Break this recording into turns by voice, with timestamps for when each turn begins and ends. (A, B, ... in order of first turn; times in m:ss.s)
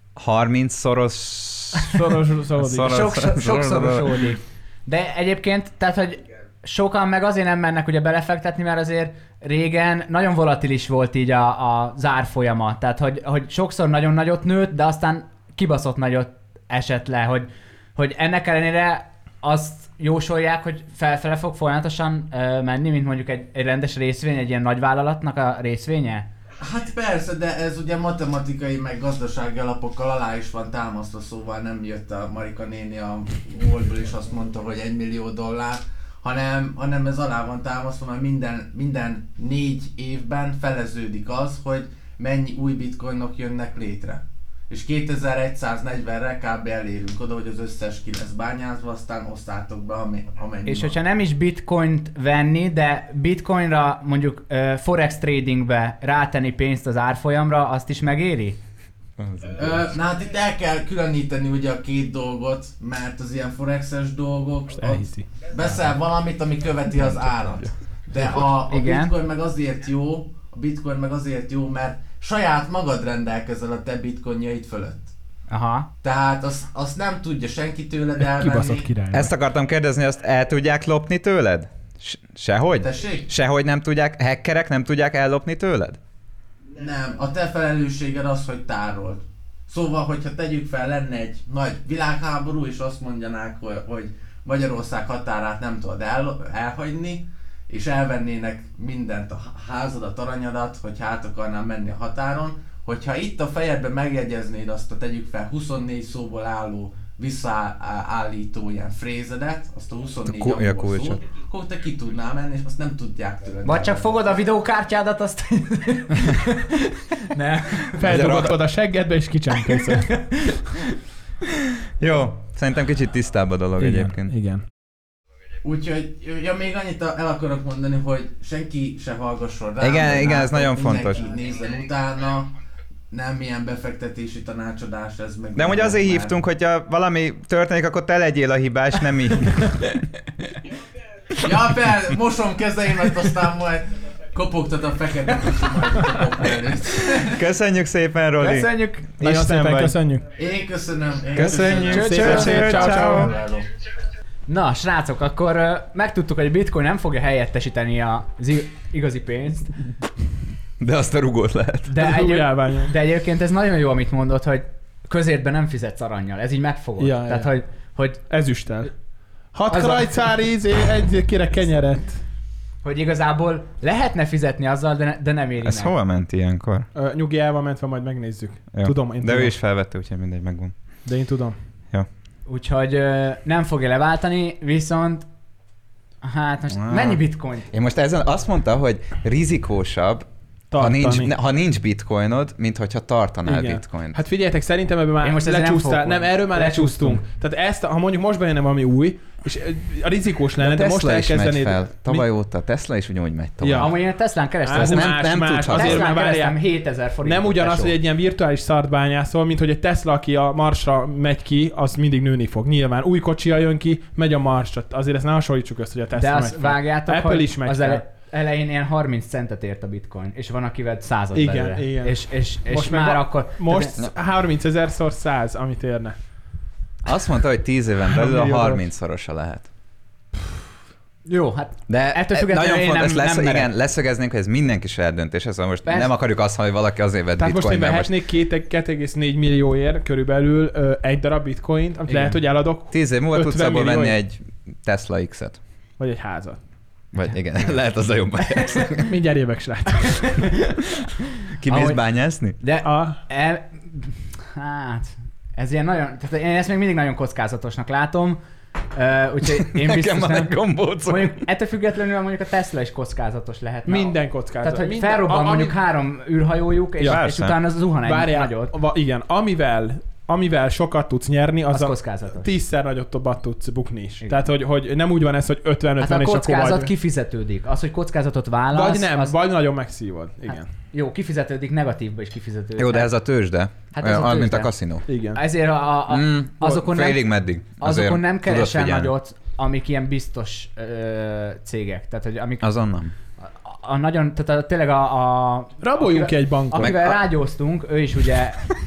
0:00.2-0:02.0 A
0:01.8-0:03.1 B
0:02.6-0:04.3 A
0:02.8-0:26.3 C
0:26.6-0:51.0 D
0:50.6-0:58.6 C
0:59.2-0:59.8 A
0:59.6-1:15.1 D
1:04.8-1:05.8 B
1:08.2-1:09.2 C
1:15.5-1:15.9 C
1:16.0-1:18.9 D
1:18.2-1:19.3 B
1:19.1-1:26.0 A
1:22.8-1:23.3 D
1:26.8-1:54.1 D
1:50.2-1:51.2 A
1:53.6-1:58.0 C
1:58.0-2:00.1 B
1:58.0-1:58.6 A
1:59.6-2:00.8 C
2:02.0-2:04.3 A
2:03.8-2:04.6 B
2:05.6-2:12.5 D
2:09.8-2:11.2 A
2:13.1-2:16.4 D
2:15.6-2:20.0 A
2:21.4-2:27.4 D
2:27.2-2:30.0 A
2:28.4-2:29.1 C
2:29.2-2:30.3 B
2:30.4-2:33.7 D
2:31.3-2:33.3 A
2:31.7-2:33.3 B
2:31.9-2:32.7 C
2:34.5-2:39.8 C
2:40.8-2:41.9 A
2:41.9-2:48.2 C
2:41.9-2:42.9 B
2:47.0-2:47.5 B
2:48.3-2:48.9 B
2:49.5-2:52.2 B
2:49.7-2:50.1 C
2:52.8-2:55.9 C
2:55.6-2:56.9 A
2:57.0-2:59.5 B
2:58.7-3:00.7 A
3:01.0-3:01.6 B
3:02.5-3:05.3 C
3:06.2-3:07.7 C
3:06.7-3:10.3 A
3:10.7-3:11.3 B
3:10.8-3:14.2 A
3:13.5-3:22.3 B
3:15.2-3:17.2 C
3:20.6-3:23.9 A
3:23.6-3:24.0 B
3:23.8-3:28.0 C
3:24.6-3:26.6 B
3:24.7-3:26.1 A
3:27.2-3:38.0 B
3:36.1-3:44.0 C
3:41.4-3:46.2 B
3:47.0-3:49.7 A
3:48.1-3:48.8 B
3:51.3-3:53.7 C
3:51.9-3:58.1 A
3:55.8-3:56.1 C
3:57.4-4:04.2 B
4:02.1-4:02.4 C
4:02.9-4:05.6 A
4:06.0-4:06.6 B
4:07.1-4:09.1 A
4:08.6-4:08.9 C
4:09.0-4:10.5 B
4:11.6-4:12.6 A
4:11.7-4:12.0 C
4:12.6-4:18.4 C
4:12.8-4:13.2 B
4:19.0-4:28.7 C
4:19.6-4:21.4 A
4:23.9-4:25.8 B
4:27.0-4:27.2 B
4:27.1-4:27.6 A
4:28.0-4:36.9 B
4:31.7-4:32.5 C
4:34.2-4:34.5 C
4:36.0-4:39.4 C
4:38.7-4:40.7 B
4:40.5-4:43.1 C
4:42.8-4:45.0 A
4:43.9-4:47.2 C
4:45.1-4:45.4 B
4:46.1-4:49.1 A
4:47.8-4:52.7 C
4:52.6-4:53.1 A
4:53.4-4:58.7 C
4:55.8-4:56.9 B
4:56.7-4:57.2 A